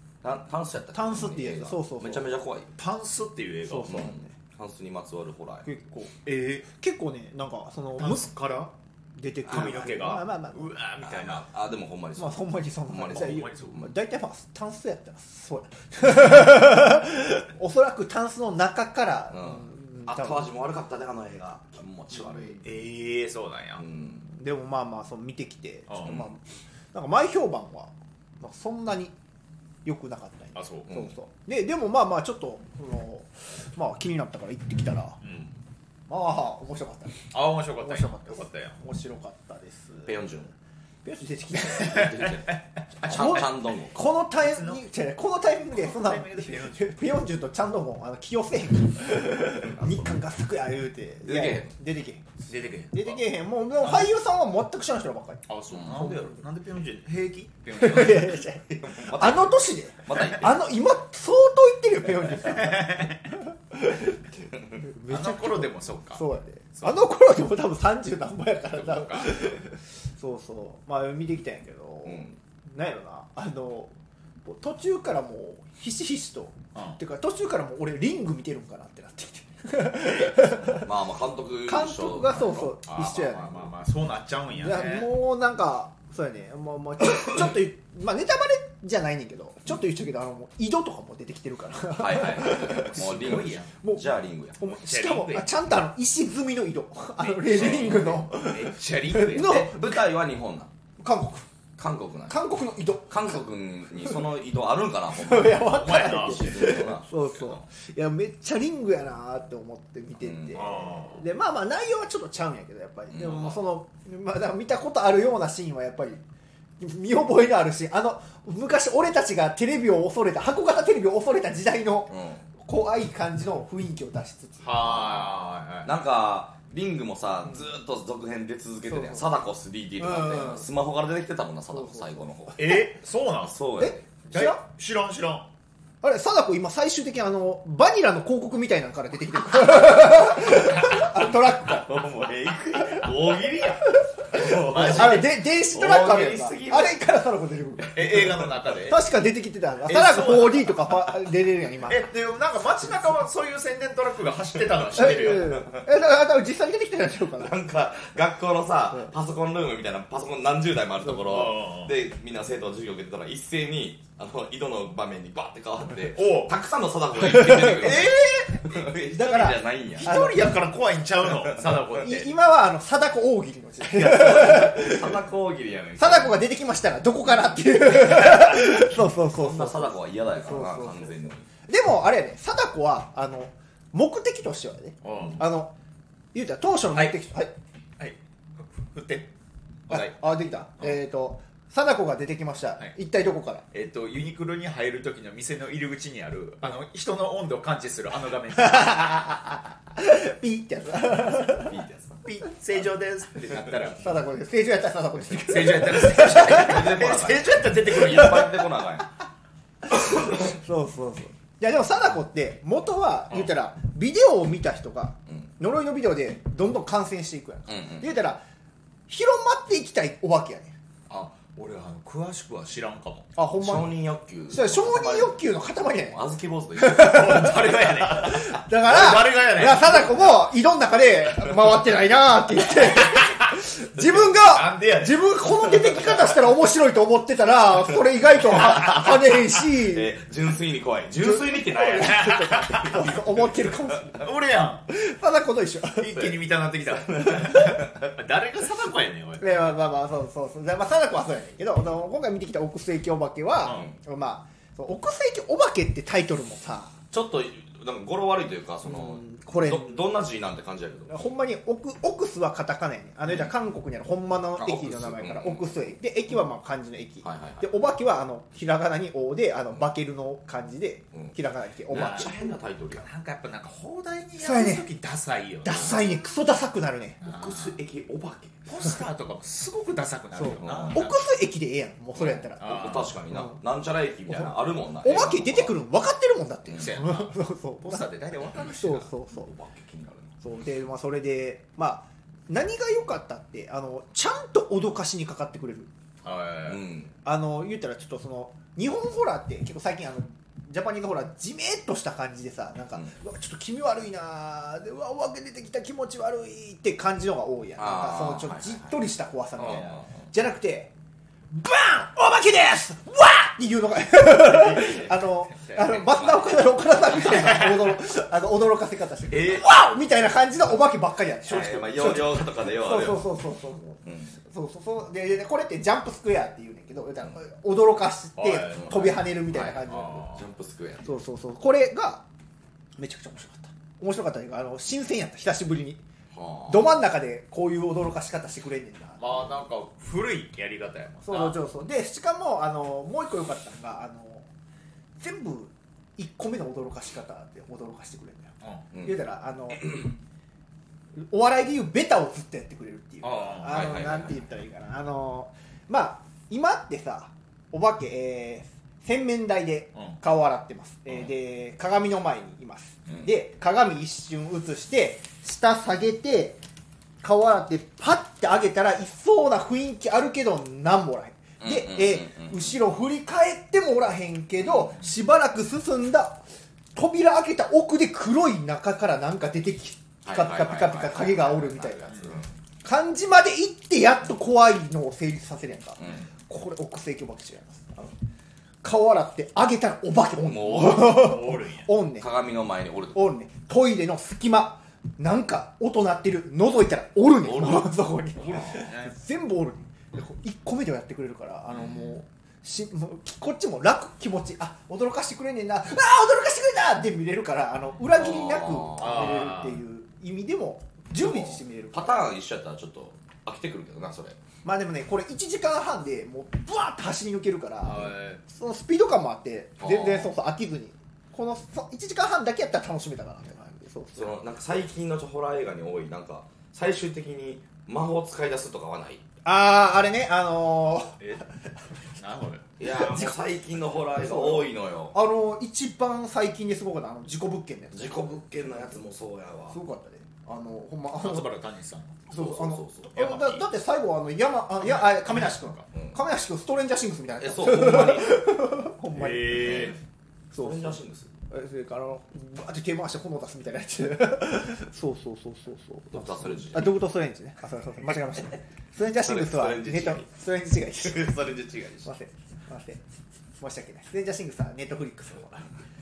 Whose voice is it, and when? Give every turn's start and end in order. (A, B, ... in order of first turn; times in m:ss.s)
0:00.2-0:02.7 A
0:00.9-0:02.3 B
0:02.8-0:04.1 C
0:03.7-0:04.3 B
0:03.8-0:05.7 A
0:05.6-0:06.1 B
0:06.2-0:06.7 C
0:06.7-0:08.3 B
0:08.0-0:08.7 C
0:09.2-0:10.7 B
0:09.4-0:11.5 C
0:11.0-0:13.9 A
0:12.2-0:20.5 B
0:13.0-0:13.9 C
0:19.3-0:22.7 A
0:22.1-0:22.6 B
0:22.6-0:23.8 C
0:23.8-0:24.3 A
0:24.3-0:29.2 B
0:25.9-0:26.2 C
0:29.8-0:35.2 B
0:30.6-0:31.1 C
0:35.2-0:35.5 C
0:36.1-0:40.2 B
0:37.3-0:38.8 C
0:40.1-0:40.5 A
0:41.0-0:42.3 B
0:41.7-0:44.0 A
0:41.8-0:43.5 C
0:43.0-0:52.3 B
0:44.4-0:44.8 C
0:45.7-0:47.0 C
0:49.6-0:50.1 A
0:51.2-0:51.7 A
0:52.4-0:53.3 C
0:52.9-0:56.4 B
0:53.8-0:54.1 C
0:55.5-0:58.4 C
0:57.8-1:04.2 B
0:58.8-1:00.7 A
1:02.4-1:03.4 C
1:04.8-1:13.9 B
1:05.1-1:07.1 C
1:08.8-1:09.4 C
1:12.0-1:12.4 A
1:14.4-1:20.9 B
1:16.7-1:17.0 C
1:20.0-1:20.6 C
1:20.7-1:22.8 A
1:21.7-1:23.7 B
1:22.8-1:25.1 C
1:24.6-1:40.0 B
1:32.0-1:34.6 A
1:32.8-1:33.8 C
1:34.7-1:35.5 C
1:37.2-1:39.7 C
1:37.5-1:38.2 A
1:39.3-1:40.7 A
1:41.0-1:41.5 B
1:41.8-1:42.4 A
1:42.3-1:43.4 B
1:43.1-1:47.5 A
1:44.0-1:44.2 B
1:45.1-1:56.2 B
1:45.6-1:46.7 C
1:47.4-1:47.6 C
1:50.2-1:50.6 A
1:50.6-1:51.3 C
1:53.1-1:53.6 A
1:56.8-2:05.0 B
2:02.1-2:02.5 A
2:04.6-2:05.9 C
2:04.9-2:05.3 A
2:05.8-2:12.9 A
2:08.9-2:09.3 B
2:10.0-2:10.7 B
2:11.7-2:12.3 B
2:12.6-2:13.6 C
2:13.4-2:14.1 A
2:13.8-2:14.6 B
2:14.3-2:15.5 C
2:16.0-2:22.0 B
2:21.7-2:26.9 A
2:22.7-2:23.1 B
2:24.3-2:25.3 C
2:24.8-2:28.2 B
2:27.8-2:28.3 A
2:27.9-2:29.0 C
2:28.9-2:32.0 B
2:29.9-2:30.8 C
2:31.9-2:35.6 C
2:35.0-2:37.6 B
2:35.3-2:35.9 A
2:37.4-2:50.2 A
2:41.2-2:41.9 C
2:46.1-2:46.6 C
2:47.2-2:48.0 B
2:47.8-2:48.7 C
2:49.1-2:50.5 B
2:50.0-2:52.3 C
2:51.9-2:55.2 B
2:53.9-2:56.5 A
2:56.0-3:05.7 B
2:57.8-3:01.5 A
3:05.0-3:05.5 C
3:06.3-3:07.5 B
3:06.9-3:07.2 C
3:08.0-3:09.3 C
3:09.9-3:10.2 C
3:09.9-3:13.7 B
3:13.7-3:19.2 C
3:18.6-3:21.8 B
3:21.4-3:22.2 A
3:22.2-3:24.1 C
3:24.0-3:26.9 B
3:25.4-3:28.5 C
3:26.2-3:29.1 A
3:29.9-3:38.4 B
3:29.9-3:30.5 A
3:37.7-3:38.1 A
3:39.1-3:40.8 B
3:41.1-3:43.3 C
3:43.4-3:43.9 B
3:43.6-3:45.4 A
3:44.5-3:46.2 B
3:46.1-3:47.6 A
3:46.8-4:00.1 B
3:46.9-3:50.3 C
3:53.0-3:53.6 C
3:54.3-3:55.3 C
3:58.5-4:04.1 A
4:01.2-4:04.3 B
4:02.0-4:03.1 C
4:04.2-4:04.9 C
4:04.9-4:06.3 B
4:06.0-4:09.6 C
4:07.0-4:07.8 A
4:09.4-4:17.0 B
4:13.6-4:13.9 C
4:13.6-4:14.0 A
4:17.1-4:21.2 A
4:18.8-4:20.0 B
4:21.1-4:32.3 B
4:23.3-4:23.5 A
4:24.6-4:25.8 A
4:27.2-4:27.7 A
4:31.9-4:33.1 A
4:31.9-4:32.3 C
4:32.9-4:36.0 C
4:34.4-4:34.9 B
4:35.6-4:37.2 B
4:37.2-4:37.8 C
4:37.2-4:38.6 A
4:38.7-4:41.2 C
4:40.4-4:43.6 B
4:40.6-4:41.0 A
4:42.2-4:45.8 A
4:42.6-4:43.2 C
4:44.3-4:49.5 B
4:46.7-4:47.0 A
4:46.8-4:49.1 C
4:49.3-4:50.3 A
4:50.4-4:55.9 B
4:56.2-4:56.8 C
4:56.7-4:57.1 A
4:57.2-5:10.9 B
5:07.8-5:08.9 A
5:09.6-5:10.2 A
5:09.6-5:10.0 C
5:11.5-5:30.3 B
5:14.5-5:15.1 A
5:14.6-5:16.3 C
5:16.0-5:16.7 A
5:17.1-5:17.9 C
5:19.3-5:19.7 C
5:21.5-5:23.3 A
5:21.5-5:21.8 C
5:24.0-5:24.4 A
5:28.4-5:30.4 C
5:28.8-5:31.2 A
5:31.0-5:32.2 B
5:33.0-5:36.0 B
5:36.3-5:37.0 A
5:36.7-5:39.3 B
5:39.2-5:41.6 C
5:41.3-5:44.5 B
5:45.2-5:50.0 B
5:48.9-5:49.2 A
5:49.8-5:50.1 A
5:51.2-6:06.6 B
5:53.2-5:53.9 C
5:53.6-5:54.4 A
6:03.1-6:03.3 A
6:07.2-6:16.4 B
6:11.6-6:12.7 A
6:14.6-6:14.9 A
6:16.9-6:28.1 B
6:20.2-6:22.5 A
6:22.1-6:22.4 C
6:26.0-6:26.2 A
6:28.8-6:32.3 B
6:30.4-6:31.4 A
6:31.0-6:31.9 C
6:32.2-6:33.3 A
6:33.2-6:52.2 B
6:37.4-6:38.0 A
6:38.4-6:39.2 C
6:41.7-6:42.1 A
6:48.2-6:49.3 A
6:49.0-6:49.8 C
6:51.2-6:54.4 A
6:54.6-7:04.3 B
6:57.8-6:58.4 C
6:59.8-7:00.3 A
7:04.2-7:09.2 A
7:09.4-7:11.2 B
7:11.2-7:11.4 C
7:12.2-7:12.6 C
7:12.8-7:15.2 A
7:12.9-7:13.4 B
7:14.2-7:18.2 B
7:17.9-7:19.8 A
7:19.7-7:21.5 B
7:21.2-7:22.3 C
7:22.3-7:23.1 A
7:22.3-7:29.9 B
7:23.2-7:23.7 C
7:24.8-7:25.8 C
7:25.9-7:26.2 A
7:27.4-7:28.5 A
7:29.1-7:30.0 C
7:29.5-7:30.0 A
7:30.5-7:41.4 B
7:30.6-7:31.3 A
7:36.1-7:37.0 A
7:39.2-7:40.3 A
7:40.9-7:42.1 A
7:42.0-7:43.0 B
7:43.6-7:45.7 B